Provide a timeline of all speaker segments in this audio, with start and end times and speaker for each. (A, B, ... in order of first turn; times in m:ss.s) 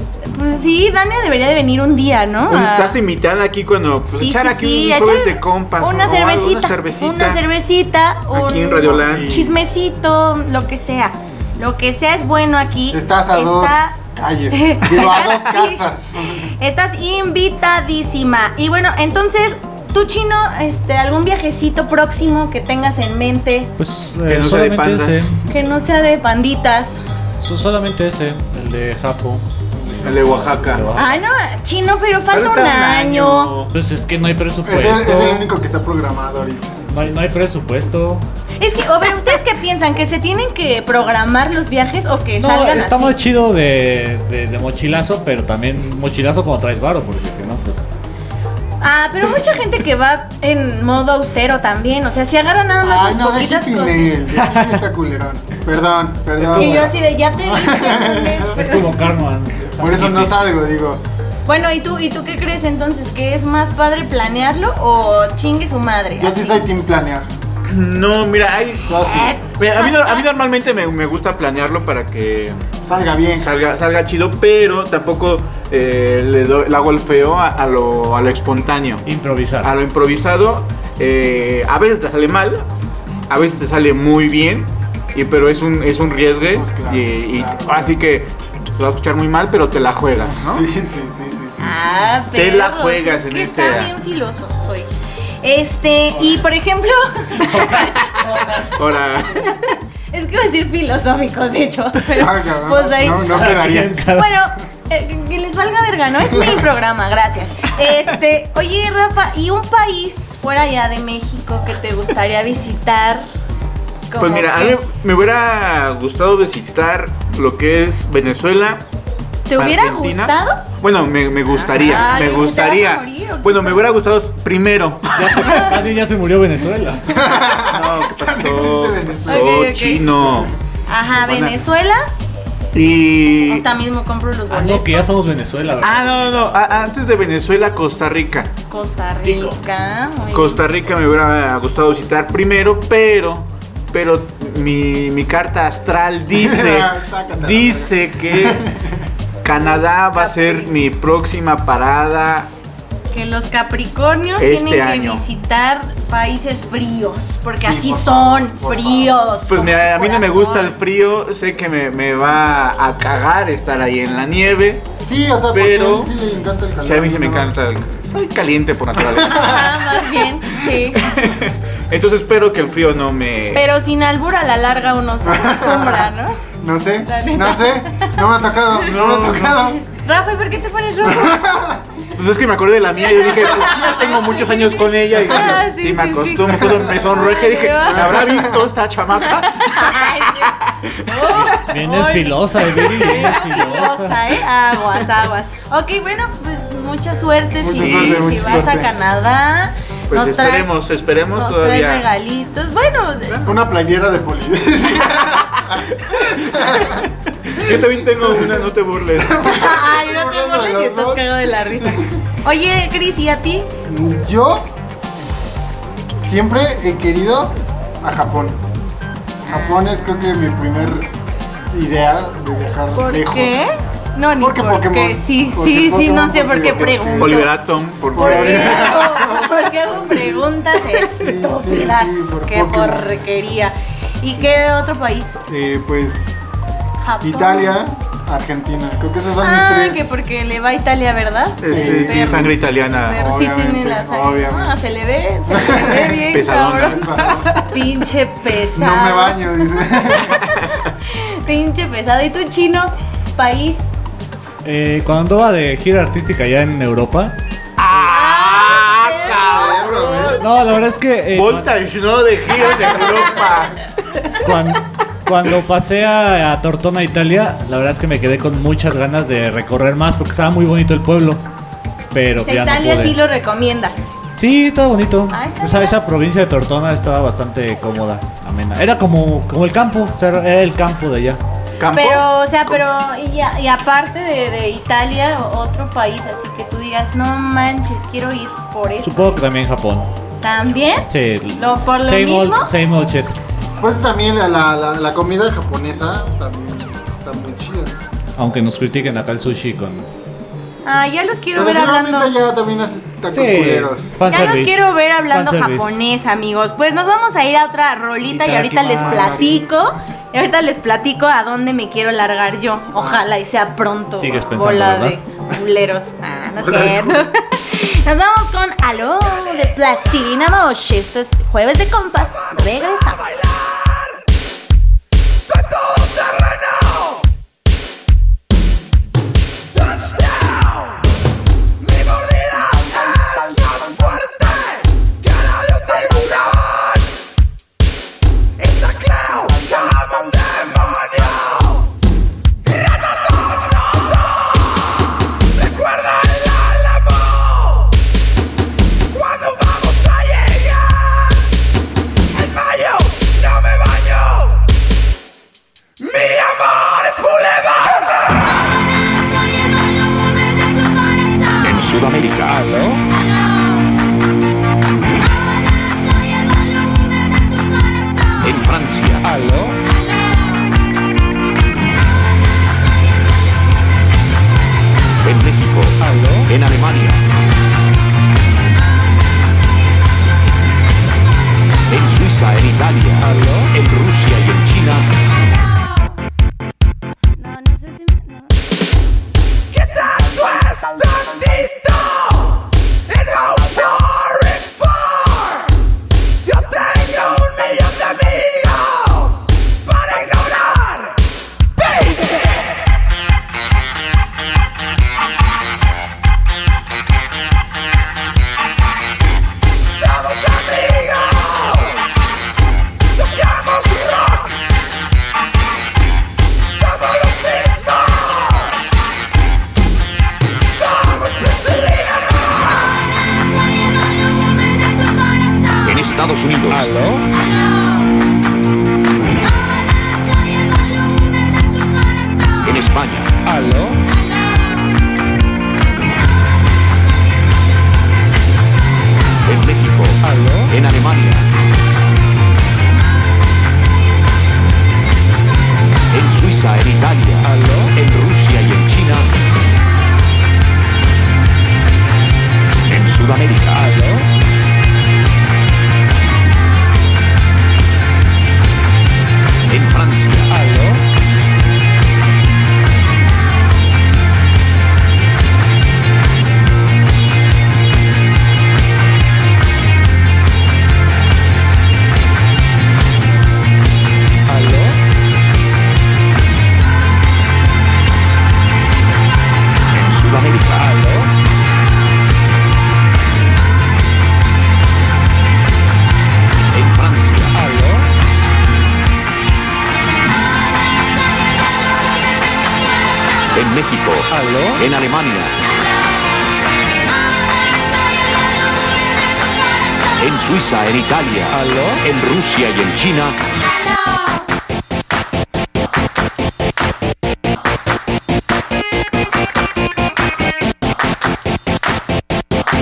0:00.2-0:03.0 A
0:02.5-0:07.4 B
0:04.1-0:14.0 A
0:08.3-0:09.3 B
0:08.8-0:09.6 C
0:12.9-0:16.5 C
0:14.5-0:15.8 A
0:16.3-0:23.7 A
0:23.8-0:25.4 D
0:24.2-0:25.3 B
0:25.5-0:27.0 A
0:27.4-0:31.2 D
0:29.8-0:30.1 C
0:30.0-0:30.9 B
0:30.9-0:33.5 A
0:32.3-0:33.7 B
0:33.7-0:35.5 D
0:34.6-0:36.8 C
0:36.9-0:38.2 D
0:38.6-0:43.2 A
0:42.4-0:47.9 D
0:48.8-0:54.2 A
0:52.8-0:59.0 C
0:54.4-0:54.8 D
0:56.4-0:56.9 D
0:56.6-0:58.9 A
0:58.5-1:00.5 D
0:59.8-1:01.0 C
1:01.4-1:06.6 A
1:06.2-1:07.3 C
1:07.6-1:12.6 B
1:08.9-1:09.4 C
1:09.0-1:10.3 A
1:12.8-1:13.6 C
1:13.4-1:19.0 B
1:19.0-1:19.7 D
1:19.6-1:22.6 B
1:23.3-1:30.6 B
1:26.5-1:28.0 C
1:30.2-1:31.8 C
1:31.6-1:34.9 A
1:32.3-1:33.9 B
1:35.4-1:38.1 A
1:37.4-1:38.7 D
1:38.0-1:39.5 B
1:39.3-1:43.5 A
1:42.1-1:44.0 C
1:43.3-1:44.3 D
1:44.1-1:53.2 A
1:46.2-1:46.6 C
1:54.1-1:54.8 A
1:54.2-1:58.8 B
1:59.5-2:00.6 A
1:59.5-2:05.7 B
2:01.5-2:03.8 A
2:05.1-2:07.2 D
2:07.1-2:09.6 C
2:07.6-2:10.5 B
2:09.3-2:10.1 A
2:10.2-2:10.5 C
2:10.9-2:12.1 A
2:11.1-2:11.6 B
2:12.7-2:13.7 B
2:13.4-2:15.0 A
2:14.5-2:16.6 D
2:15.8-2:18.5 B
2:18.7-2:20.6 A
2:20.3-2:28.7 B
2:26.3-2:29.1 C
2:29.4-2:32.5 B
2:29.5-2:30.7 A
2:33.1-2:40.8 A
2:34.4-2:35.2 B
2:37.6-2:39.3 C
2:39.5-2:44.9 B
2:45.0-2:47.5 C
2:45.5-2:46.1 B
2:46.8-2:53.6 B
2:49.0-2:49.6 C
2:49.2-2:51.0 A
2:53.5-2:56.4 A
2:55.2-2:59.8 C
2:57.0-2:58.2 A
2:58.8-2:59.7 B
2:59.7-3:01.5 A
3:01.0-3:01.9 C
3:02.2-3:11.5 B
3:03.0-3:08.3 A
3:07.9-3:08.6 C
3:09.2-3:20.7 A
3:11.6-3:14.2 D
3:17.6-3:19.0 C
3:17.8-3:18.7 B
3:20.1-3:22.0 B
3:21.3-3:23.5 A
3:23.3-3:23.6 B
3:23.4-3:32.2 C
3:25.6-3:29.4 B
3:29.4-3:33.7 A
3:33.8-3:35.3 C
3:36.2-3:38.6 C
3:39.4-3:39.8 A
3:39.5-3:41.1 C
3:41.7-3:43.6 C
3:42.9-3:47.5 A
3:44.4-3:47.5 C
3:47.2-3:49.1 B
3:48.1-3:53.2 C
3:48.2-3:55.4 A
3:55.5-3:56.4 C
3:57.0-3:57.9 A
3:57.2-4:00.1 C
3:59.4-4:13.9 A
4:01.6-4:03.3 B
4:01.6-4:04.8 C
4:05.5-4:07.6 C
4:06.3-4:07.6 B
4:08.6-4:10.5 C
4:14.6-4:17.4 D
4:17.8-4:20.8 B
4:18.0-4:20.3 A
4:19.3-4:20.4 C
4:20.4-4:21.7 D
4:21.3-4:24.0 B
4:22.6-4:23.5 A
4:24.4-4:31.4 D
4:32.1-4:33.2 D
4:32.4-4:34.1 A
4:34.3-4:41.4 D
4:35.3-4:36.0 A
4:41.8-4:42.8 B
4:41.9-4:49.4 A
4:49.0-4:50.1 D
4:50.4-4:52.7 A
4:51.1-4:53.4 D
4:53.8-4:58.0 C
4:58.4-5:00.1 D
5:00.8-5:02.3 A
5:01.5-5:04.1 C
5:03.3-5:06.0 D
5:04.3-5:23.5 A
5:08.3-5:09.5 D
5:08.9-5:09.7 C
5:12.9-5:13.2 C
5:14.1-5:15.2 D
5:16.6-5:17.2 C
6:01.6-6:02.9 E
6:08.4-6:09.4 E
6:09.3-6:09.6 D
6:15.2-6:17.2 E
6:16.0-6:16.5 D
6:21.9-6:25.0 E
6:23.3-6:23.6 D
6:27.5-6:28.3 A
7:05.8-7:07.0 E
7:12.6-7:13.4 E
7:19.4-7:21.5 E
7:26.1-7:29.3 E
7:27.5-7:27.8 D
7:32.9-7:34.0 E
7:39.7-7:40.6 E
7:40.6-7:40.9 D
7:59.9-8:01.0 E
8:06.7-8:07.6 E
8:07.6-8:08.0 D
8:13.5-8:15.5 E
8:14.3-8:14.8 D
8:20.2-8:23.4 E
8:21.5-8:22.0 D